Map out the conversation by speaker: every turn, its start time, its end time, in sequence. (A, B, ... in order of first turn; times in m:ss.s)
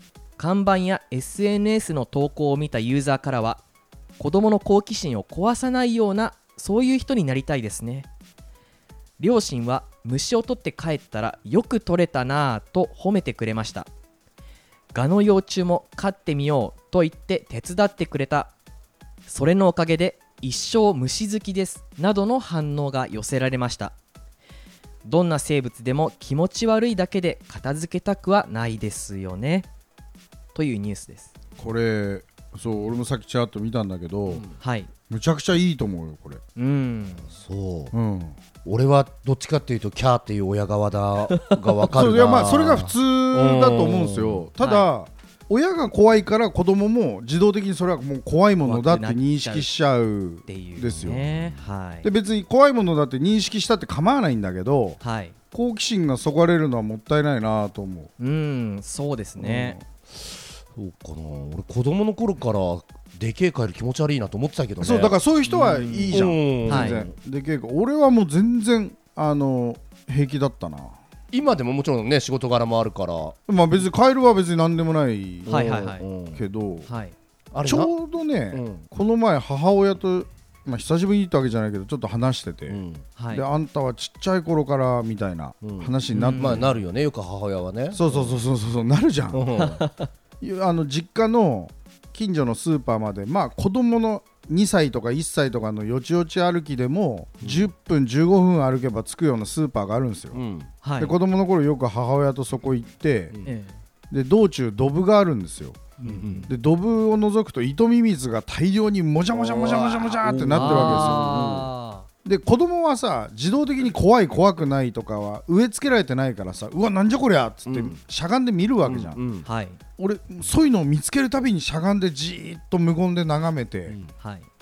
0:00.4-0:03.6 A
0:04.2-0:08.1 A
0:09.2-0:13.9 A
0:14.9-0:18.5 A
0:19.3-0:24.0 A
0:25.0-0:29.7 A
0:30.5-0:31.3 A
0:31.6-0:34.4 B
0:34.6-0:34.9 A
0:35.1-0:36.4 B
0:36.6-0:37.3 A
0:37.3-0:37.9 C
0:37.9-0:38.4 B
0:38.6-0:44.5 C
0:41.9-0:51.5 B
0:44.6-0:44.9 A
0:48.6-0:49.7 A
0:50.5-0:52.1 A
0:52.0-0:55.0 B
0:55.0-0:55.4 A
0:55.5-0:58.1 B
0:58.2-0:59.8 A
1:00.7-1:05.2 C
1:04.8-1:11.0 B
1:05.5-1:06.2 A
1:06.1-1:07.1 C
1:06.7-1:07.0 A
1:11.3-1:13.4 C
1:13.5-1:15.7 B
1:15.5-1:16.4 C
1:15.5-1:16.1 A
1:16.4-1:16.9 B
1:16.9-1:17.2 A
1:17.5-1:17.9 C
1:17.6-1:22.8 B
1:18.5-1:18.9 C
1:22.7-1:23.1 C
1:23.2-1:23.4 A
1:23.3-1:26.7 B
1:25.6-1:28.4 C
1:26.1-1:26.7 A
1:27.9-1:29.4 B
1:29.3-1:29.8 C
1:29.6-1:30.1 A
1:30.4-1:40.4 B
1:37.4-1:37.7 C
1:40.3-1:40.7 C
1:40.8-1:41.2 A
1:41.0-1:43.4 B
1:43.4-1:43.8 A
1:44.1-1:45.9 B
1:46.0-1:46.5 A
1:46.0-1:46.5 C
1:46.5-1:51.7 B
1:49.3-1:51.7 C
1:50.5-1:52.1 A
1:52.2-1:59.2 B
1:57.7-1:58.0 C
1:58.8-1:59.5 C
1:59.4-1:59.8 A
2:00.0-2:04.0 B
2:04.2-2:04.5 A